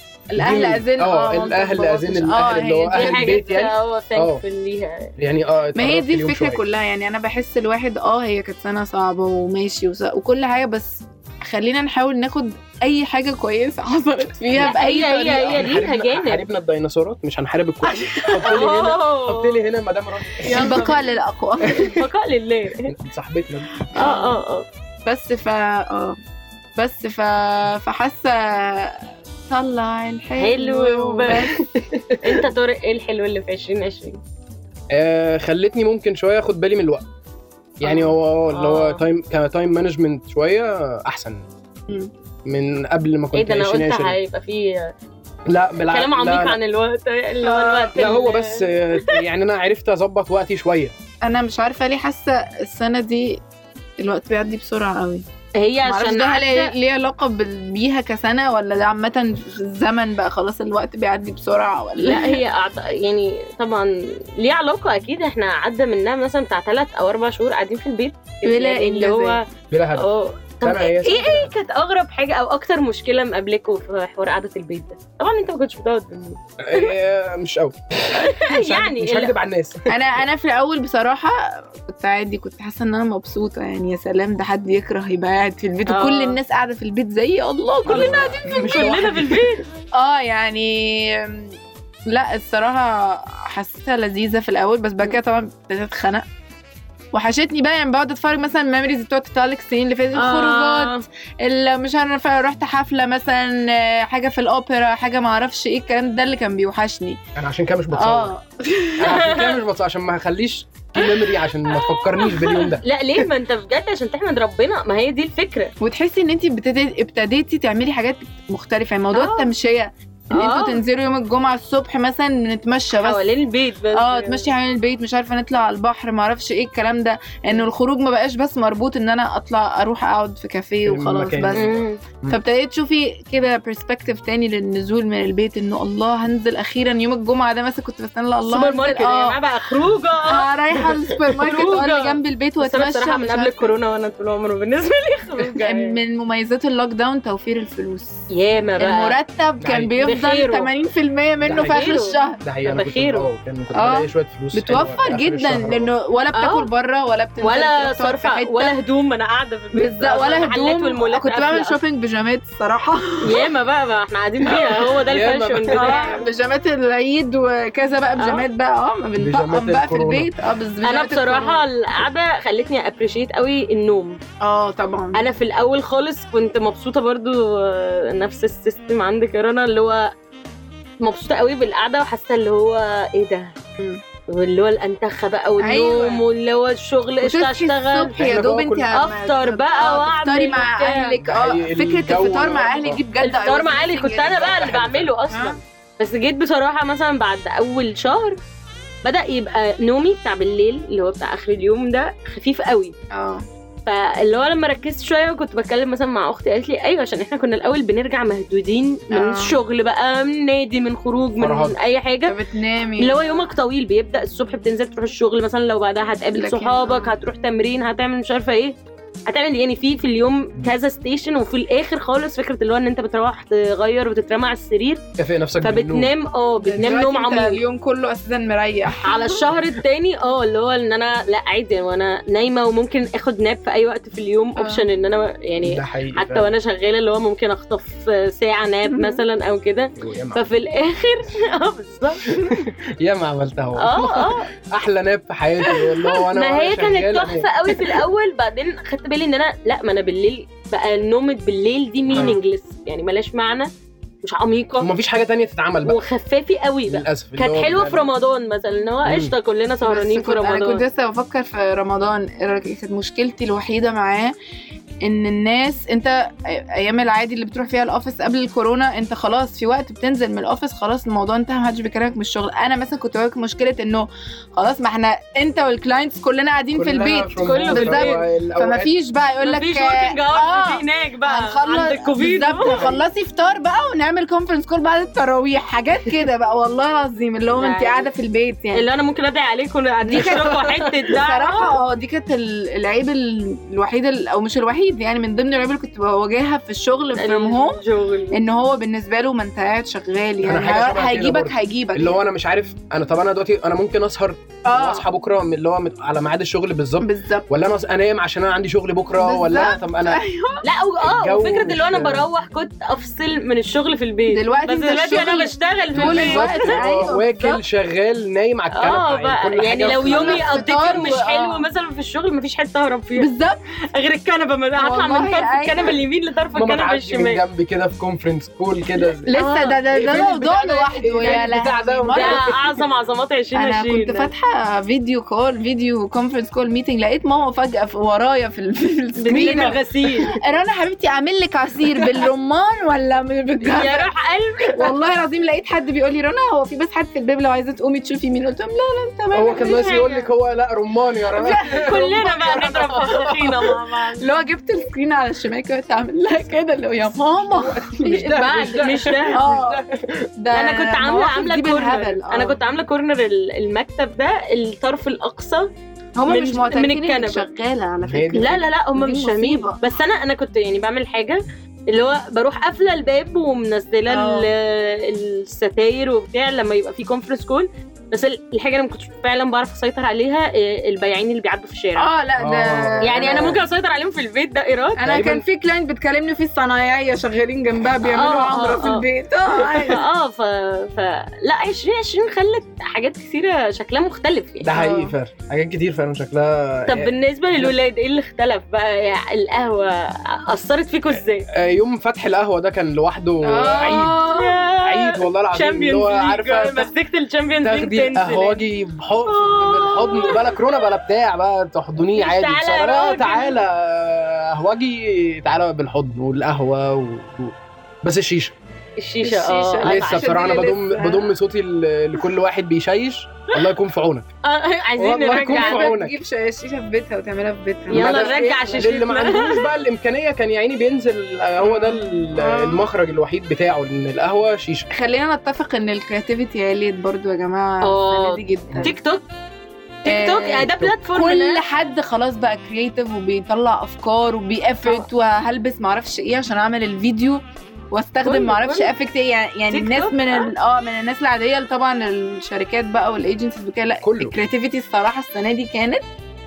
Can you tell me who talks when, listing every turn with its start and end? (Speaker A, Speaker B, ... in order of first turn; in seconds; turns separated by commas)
Speaker A: 0.3-3.6, Speaker B: 0.3-4.4, Speaker C: 2.9-5.1, Speaker B: 5.2-6.6, Speaker A: 5.8-15.6, Speaker C: 14.6-16.4, Speaker B: 15.4-20.9, Speaker A: 17.9-18.7, Speaker C: 18.4-19.6, Speaker C: 20.4-21.0, Speaker A: 20.5-22.0, Speaker C: 21.8-22.9, Speaker B: 22.9-23.7, Speaker A: 23.9-24.4, Speaker C: 23.9-24.6, Speaker A: 25.1-26.1, Speaker A: 26.8-31.6, Speaker C: 30.4-31.5, Speaker B: 31.3-32.0, Speaker C: 32.2-34.2, Speaker B: 34.9-37.0, Speaker B: 37.8-41.4, Speaker A: 37.8-38.1, Speaker C: 38.5-39.0, Speaker B: 42.5-44.2, Speaker C: 43.3-44.9, Speaker B: 45.5-46.6, Speaker C: 45.8-49.2, Speaker A: 47.4-48.0, Speaker B: 48.0-50.9, Speaker A: 51.2-53.4, Speaker A: 54.0-55.2, Speaker C: 55.6-56.7, Speaker A: 55.9-62.4, Speaker C: 62.0-69.4, Speaker A: 68.4-69.4, Speaker B: 69.7-70.0, Speaker C: 69.9-76.9, Speaker B: 70.6-71.5, Speaker B: 76.7-79.9, Speaker C: 78.1-79.4, Speaker A: 79.9-88.7, Speaker C: 85.9-86.4, Speaker C: 87.9-89.6, Speaker B: 87.9-89.5, Speaker A: 90.0-91.6, Speaker A: 92.1-96.2, Speaker A: 97.1-107.2, Speaker C: 100.1-101.0, Speaker B: 107.4-108.3, Speaker A: 107.9-109.3, Speaker B: 109.0-112.8, Speaker C: 109.0-109.5, Speaker C: 111.8-115.7, Speaker A: 115.8-123.3, Speaker C: 119.1-119.5, Speaker C: 120.3-120.8, Speaker C: 123.0-124.4, Speaker A: 123.9-131.7, Speaker B: 130.8-132.4, Speaker C: 131.5-132.0, Speaker A: 132.3-139.4, Speaker C: 138.5-145.9, Speaker A: 140.2-143.7, Speaker A: 145.4-148.3, Speaker C: 148.3-149.2, Speaker A: 148.8-152.4, Speaker B: 149.6-149.9, Speaker C: 150.0-150.7, Speaker B: 151.4-151.8, Speaker C: 151.6-153.3, Speaker B: 152.4-155.9, Speaker A: 153.7-158.7, Speaker C: 156.3-156.7, Speaker C: 157.4-161.8, Speaker A: 159.7-163.4, Speaker C: 163.2-166.2, Speaker B: 164.6-166.0, Speaker A: 165.7-171.6, Speaker C: 168.2-168.4, Speaker B: 169.2-170.3, Speaker C: 170.8-174.2, Speaker A: 174.4-175.2, Speaker C: 175.1-180.1, Speaker C: 181.0-183.5, Speaker C: 184.3-188.2, Speaker A: 185.6-186.2, Speaker A: 187.2-194.6, Speaker B: 188.2-188.9, Speaker C: 188.9-191.2, Speaker B: 191.2-193.0, Speaker C: 193.2-198.4, Speaker B: 194.4-195.1, Speaker A: 195.3-195.6, Speaker C: 199.0-202.9, Speaker A: 203.1-203.4, Speaker C: 203.8-212.3, Speaker A: 209.1-209.6, Speaker B: 211.4-211.8, Speaker A: 212.2-213.5, Speaker C: 213.0-218.8, Speaker A: 216.3-217.1, Speaker C: 219.3-225.0, Speaker B: 225.2-226.1, Speaker C: 225.6-227.6, Speaker A: 226.6-229.5, Speaker C: 229.0-242.2, Speaker A: 234.6-234.8, Speaker B: 235.6-236.5, Speaker A: 238.9-239.2, Speaker B: 240.0-240.4, Speaker B: 242.4-247.7, Speaker C: 243.8-244.4, Speaker A: 245.7-246.2, Speaker C: 246.3-253.7, Speaker B: 252.1-252.4, Speaker C: 254.2-254.9, Speaker B: 254.8-256.0, Speaker C: 255.8-260.8, Speaker B: 256.9-258.1, Speaker B: 259.0-259.3, Speaker A: 259.8-264.3, Speaker A: 265.0-288.9, Speaker B: 276.7-278.9, Speaker C: 277.4-278.2, Speaker C: 279.4-282.9, Speaker B: 282.6-283.0, Speaker C: 287.6-288.1, Speaker C: 288.7-291.7, Speaker A: 290.0-297.8, Speaker B: 290.1-290.9, Speaker C: 297.1-298.4, Speaker A: 298.3-302.2, Speaker B: 300.4-310.2, Speaker A: 304.7-305.1, Speaker A: 307.0-307.5, Speaker A: 309.2-310.6, Speaker C: 310.6-316.8, Speaker B: 311.0-312.3, Speaker A: 314.3-317.6, Speaker B: 315.9-321.2, Speaker C: 318.7-323.3, Speaker A: 319.8-321.7, Speaker A: 323.2-323.6, Speaker C: 323.9-327.4, Speaker A: 324.8-326.0, Speaker B: 326.5-329.4, Speaker A: 329.2-332.5, Speaker C: 329.3-329.8, Speaker B: 329.9-332.6, Speaker C: 332.1-334.3, Speaker A: 333.5-344.1, Speaker C: 339.2-340.3, Speaker B: 339.3-339.8, Speaker C: 343.6-344.9, Speaker A: 344.7-350.1, Speaker B: 349.3-352.9, Speaker C: 349.6-350.2, Speaker A: 351.3-352.8, Speaker C: 351.7-354.2, Speaker A: 353.4-358.3, Speaker B: 357.5-360.2, Speaker C: 358.0-359.4, Speaker A: 359.3-359.8, Speaker A: 360.4-362.6, Speaker C: 360.5-365.7, Speaker A: 366.1-369.8, Speaker C: 366.3-367.4, Speaker B: 368.0-368.5, Speaker C: 368.4-382.1, Speaker A: 374.1-374.5, Speaker A: 381.9-383.6, Speaker B: 382.4-383.6, Speaker C: 383.0-385.1, Speaker A: 385.0-390.0, Speaker B: 385.0-385.4, Speaker C: 388.1-389.0, Speaker C: 389.6-394.8, Speaker B: 394.6-397.8, Speaker A: 394.7-395.1, Speaker C: 396.9-401.5, Speaker B: 401.6-404.3, Speaker A: 403.4-404.6, Speaker C: 404.3-408.6, Speaker B: 404.8-406.9, Speaker B: 407.6-418.5, Speaker C: 409.2-410.6, Speaker C: 412.1-413.6, Speaker C: 419.0-420.4, Speaker A: 419.2-421.3, Speaker B: 419.8-424.3, Speaker C: 424.4-425.9, Speaker B: 425.0-426.1, Speaker A: 425.2-428.9, Speaker C: 427.9-429.7, Speaker B: 427.9-434.9, Speaker A: 431.6-432.8, Speaker A: 434.9-438.9, Speaker C: 437.8-439.2, Speaker A: 440.1-456.1, Speaker C: 440.1-441.6, Speaker C: 448.2-448.9, Speaker C: 449.7-450.5, Speaker B: 454.0-454.3